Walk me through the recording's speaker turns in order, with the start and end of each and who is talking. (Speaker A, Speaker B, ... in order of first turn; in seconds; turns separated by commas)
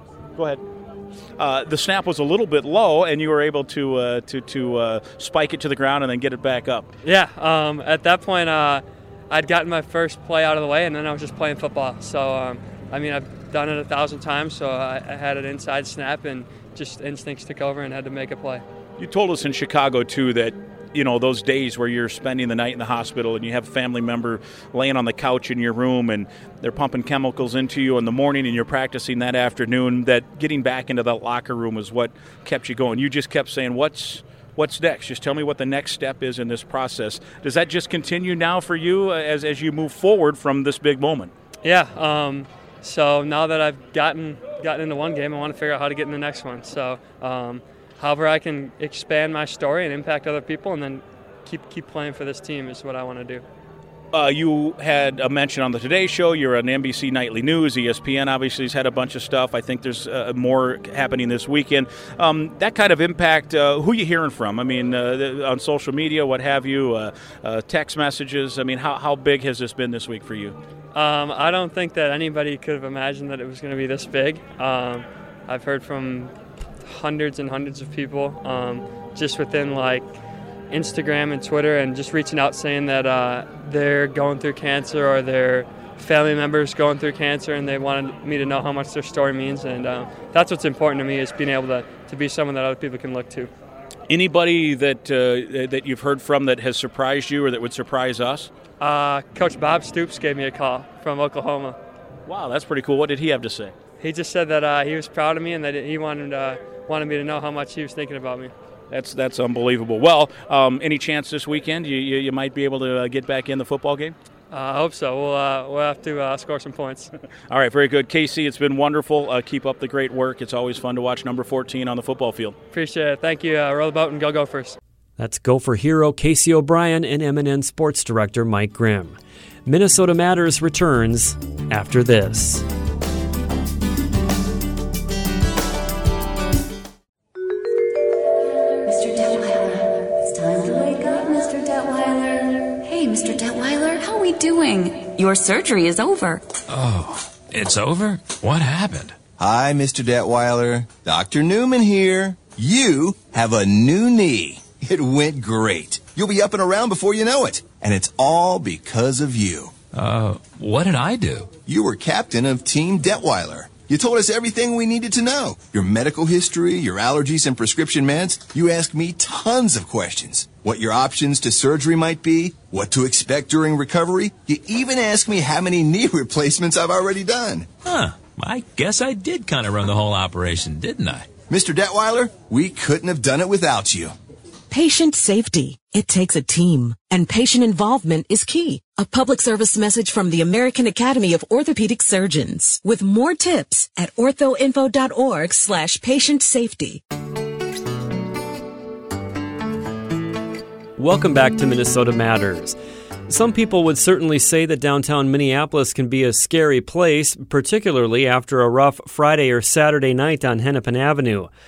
Speaker A: 0.3-0.6, Speaker A: 1.4-6.9, Speaker B: 7.0-18.6, Speaker A: 19.0-41.3, Speaker B: 41.6-53.4, Speaker A: 54.1-70.5, Speaker B: 70.9-76.3, Speaker B: 76.8-80.1, Speaker B: 80.7-93.5, Speaker A: 94.1-98.5, Speaker B: 98.8-101.8, Speaker A: 102.2-103.7, Speaker B: 104.0-108.5, Speaker A: 108.9-114.2, Speaker B: 114.5-117.1, Speaker A: 117.5-122.5, Speaker B: 122.7-124.8, Speaker C: 125.2-132.6, Speaker D: 138.9-146.4, Speaker E: 146.7-149.2, Speaker F: 149.4-159.7, Speaker E: 159.9-161.5, Speaker F: 161.7-177.7, Speaker E: 177.8-181.3, Speaker F: 181.5-184.1, Speaker G: 184.7-197.0, Speaker C: 201.0-202.8, Speaker C: 203.3-211.5